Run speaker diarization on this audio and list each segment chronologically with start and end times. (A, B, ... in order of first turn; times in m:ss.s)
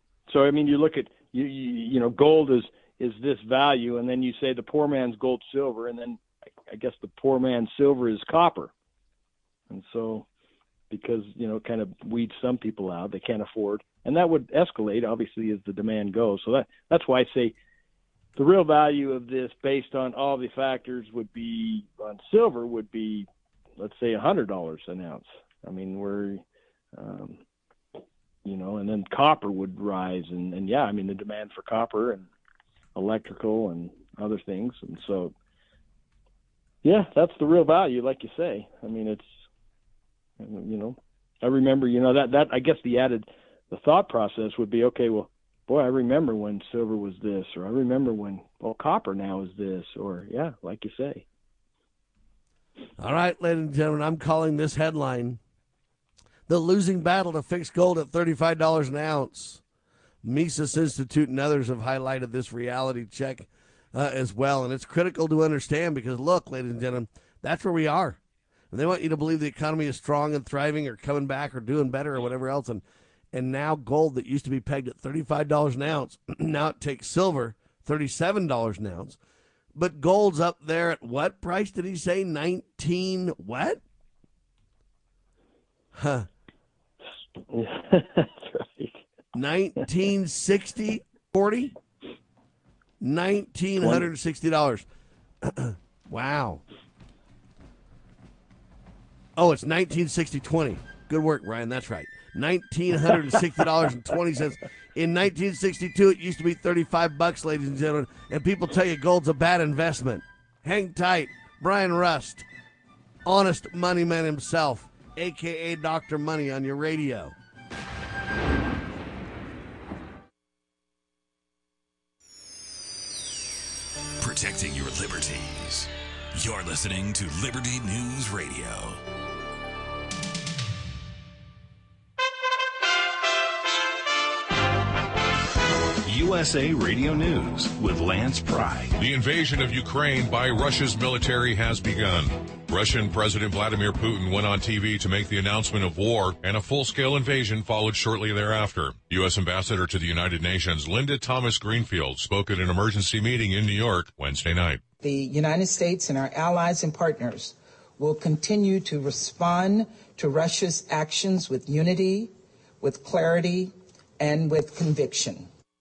0:00.3-0:08.7 A
0:09.7-0:10.2 A
0:10.9-0:17.5 A
0:18.4-0:26.4 A
0:26.9-0:27.4 A
0:28.4-0:32.3 A
0:32.9-0:35.3 A
0:36.8-0:39.4 A
0:40.4-0:51.2 A
0:53.0-0:55.4 B
0:56.5-0:59.6 B
1:00.2-1:08.2 B
1:08.7-1:19.2 B
1:19.7-1:23.8 B
1:25.9-1:26.3 B
1:27.5-1:29.0 A
1:29.3-1:31.7 B
1:33.0-1:34.8 B
1:33.8-1:34.1 A
1:35.4-1:36.6 B
1:39.4-1:52.4 B
1:53.2-1:57.3 B
2:04.2-2:09.0 C
2:16.1-2:18.9 D
2:18.9-2:34.8 E
2:35.0-2:45.5 F